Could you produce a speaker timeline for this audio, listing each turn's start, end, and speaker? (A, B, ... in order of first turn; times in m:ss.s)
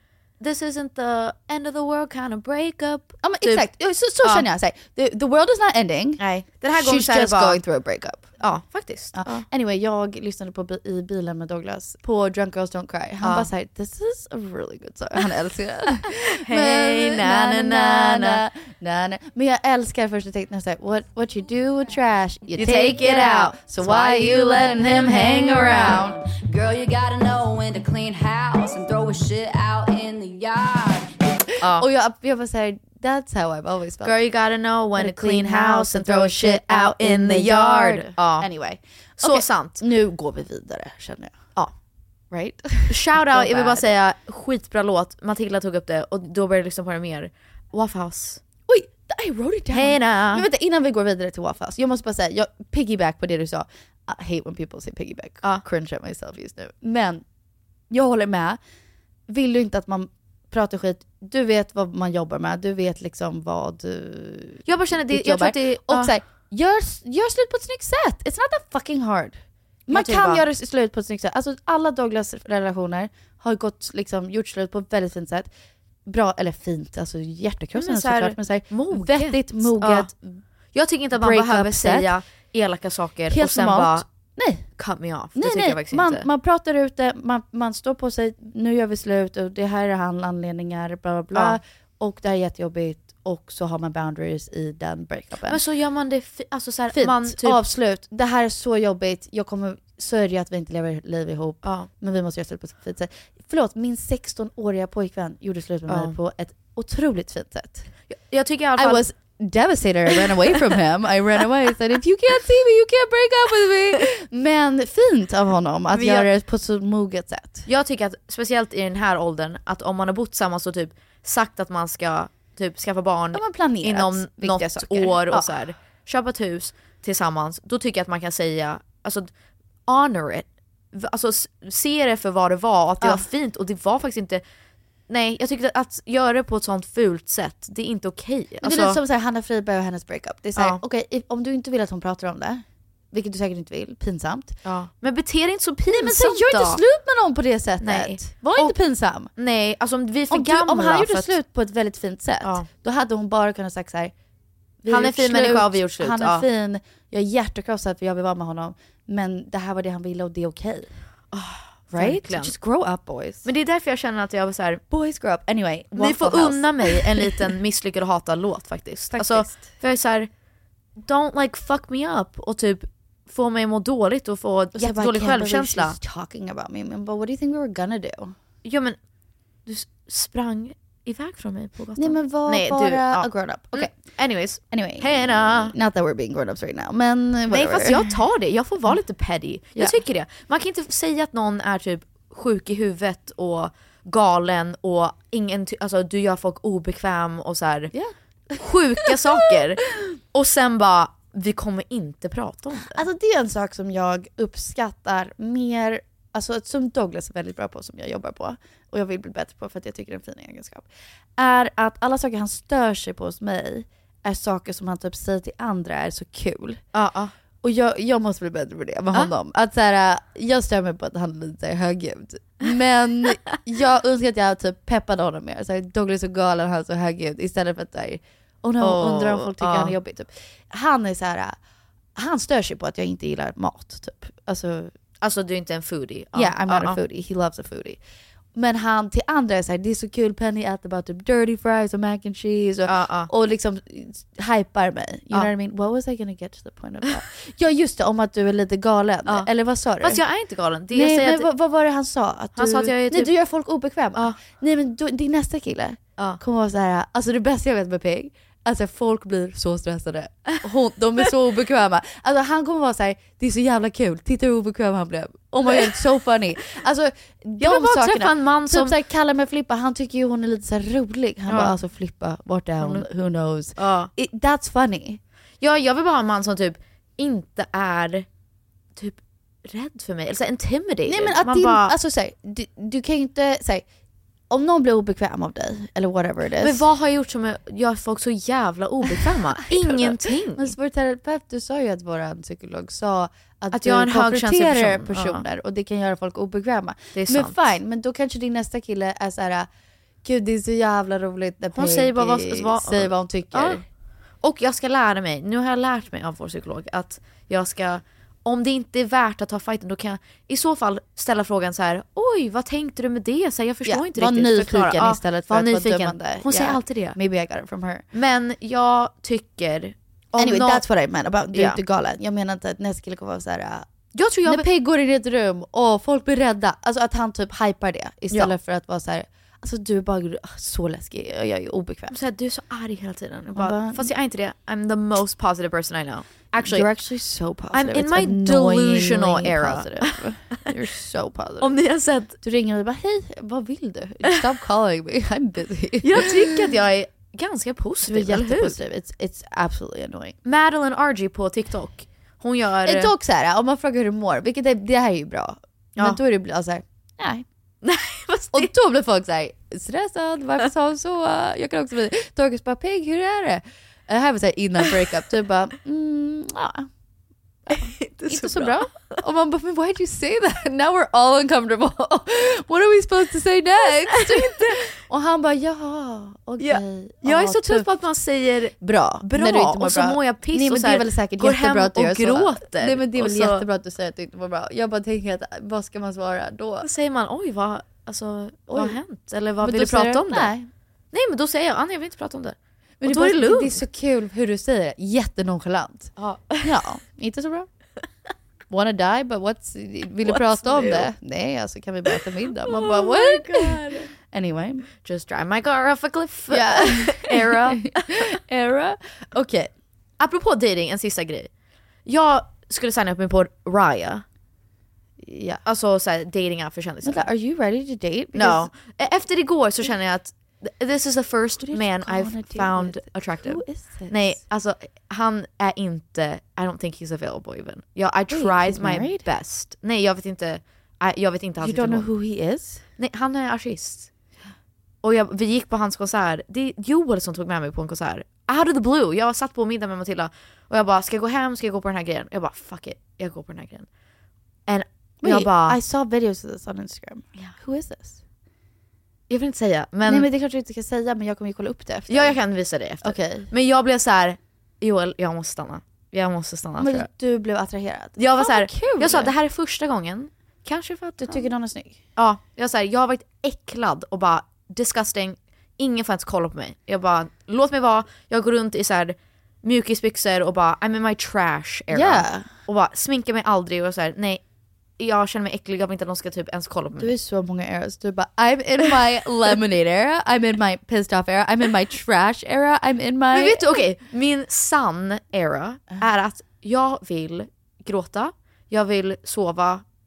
0:00.4-0:03.7 A
0:03.2-0:08.3 B
0:04.2-0:04.5 A
0:06.2-0:07.6 A
0:08.4-0:09.4 A
0:09.1-0:26.2 B
0:13.2-0:13.5 A
0:16.3-0:18.4 A
0:22.6-0:25.8 A
0:25.8-0:31.4 C
0:31.6-0:31.9 A
0:31.7-0:34.2 B
0:34.0-0:38.5 A
0:35.0-0:41.4 B
0:39.2-0:39.8 A
0:42.3-0:43.9 B
0:42.9-0:48.4 A
0:48.7-0:57.2 B
0:49.7-0:50.4 A
0:57.9-0:58.6 B
0:59.3-1:15.5 B
1:04.6-1:06.1 A
1:09.9-1:10.4 A
1:16.0-1:20.4 B
1:17.7-1:20.1 A
1:20.7-1:24.1 A
1:21.1-1:22.1 B
1:23.3-1:24.7 B
1:24.8-1:26.3 A
1:25.4-1:35.6 B
1:35.5-1:37.6 A
1:36.9-1:47.9 B
1:41.6-1:41.9 A
1:45.9-1:46.2 A
1:48.1-1:49.0 A
1:48.8-1:57.7 B
1:55.9-1:56.3 A
1:57.7-2:09.3 A
2:03.3-2:05.6 B
2:09.9-2:14.4 A
2:15.1-2:19.0 A
2:18.6-2:24.6 B
2:24.6-2:26.8 A
2:25.9-2:29.3 B
2:27.8-2:28.8 A
2:29.4-2:31.3 A
2:30.3-2:34.1 B
2:32.4-2:32.7 A
2:34.8-2:40.9 B
2:34.9-2:36.4 A
2:41.3-2:42.5 A
2:41.9-2:43.5 B
2:43.4-2:44.8 A
2:44.9-2:47.5 B
2:45.9-2:50.3 A
2:49.1-2:49.7 B
2:51.0-2:56.0 A
2:54.7-2:58.3 B
2:58.6-2:59.0 A
2:59.6-3:05.7 A
3:02.0-3:03.9 B
3:04.7-3:08.1 B
3:07.5-3:17.9 A
3:09.7-3:10.0 B
3:17.9-3:19.5 B
3:18.5-3:23.0 A
3:22.9-3:36.8 B
3:36.9-3:37.3 A
3:37.6-3:51.6 B
3:48.8-3:49.9 A
3:52.1-3:54.9 B
3:55.2-3:57.0 A
3:56.3-3:58.0 B
3:58.5-4:10.2 B
4:02.8-4:03.3 A
4:09.2-4:11.5 A
4:10.9-4:35.2 B
4:12.6-4:13.3 A
4:25.6-4:26.0 A
4:27.6-4:29.0 A
4:31.5-4:31.8 A
4:32.8-4:33.1 A
4:33.8-4:34.1 A
4:35.6-4:38.2 A
4:39.0-4:41.9 A
4:41.0-4:43.8 B
4:44.5-4:46.8 B
4:46.6-4:50.7 A
4:49.0-4:59.7 B
4:53.7-4:55.4 A
4:57.1-4:57.6 A
5:00.2-5:03.8 B
5:01.7-5:03.8 A
5:04.4-5:17.2 A
5:13.8-5:18.0 B
5:18.1-5:20.8 A
5:20.4-5:23.9 B
5:21.5-5:21.8 A
5:24.1-5:24.7 A
5:24.4-5:32.2 B
5:32.1-5:36.9 A
5:33.5-5:34.1 B
5:36.6-5:41.8 B
5:37.7-5:40.6 A
5:41.6-5:42.4 A
5:42.4-5:46.6 B
5:46.0-5:48.8 A
5:48.0-5:50.4 B
5:50.4-5:53.1 A
5:52.8-5:57.4 B
5:57.8-5:58.7 A
5:58.5-6:06.9 B
6:07.7-6:17.9 B
6:07.7-6:09.2 A
6:14.1-6:14.9 A
6:16.6-6:23.6 A
6:18.8-6:26.9 B
6:26.8-6:30.5 A
6:28.7-6:29.0 B
6:29.6-6:30.7 B
6:31.1-6:33.8 A
6:33.0-6:37.7 B
6:36.2-6:36.8 A
6:38.7-6:44.8 B
6:40.2-6:41.1 A
6:42.1-6:44.1 A
6:45.0-6:48.2 A
6:46.5-6:49.7 B
6:50.2-6:51.5 A
6:52.0-6:54.2 A
6:55.2-6:55.6 B
6:55.6-6:57.3 A
6:57.0-6:58.7 B
6:58.3-7:12.1 A
7:01.6-7:04.4 B
7:08.3-7:09.2 B
7:11.6-7:12.8 B
7:13.0-7:14.1 A
7:15.0-7:23.9 A
7:24.7-7:25.8 A
7:25.2-7:28.2 B
7:29.3-7:30.3 A
7:30.0-7:32.4 B
7:32.1-7:37.1 A
7:33.0-7:33.5 B
7:36.8-7:39.3 B
7:38.2-7:41.5 A
7:41.2-7:42.0 B
7:42.2-7:54.4 A
7:51.9-7:52.5 B
7:55.0-7:57.1 A
7:57.0-8:03.8 B
8:03.3-8:09.8 A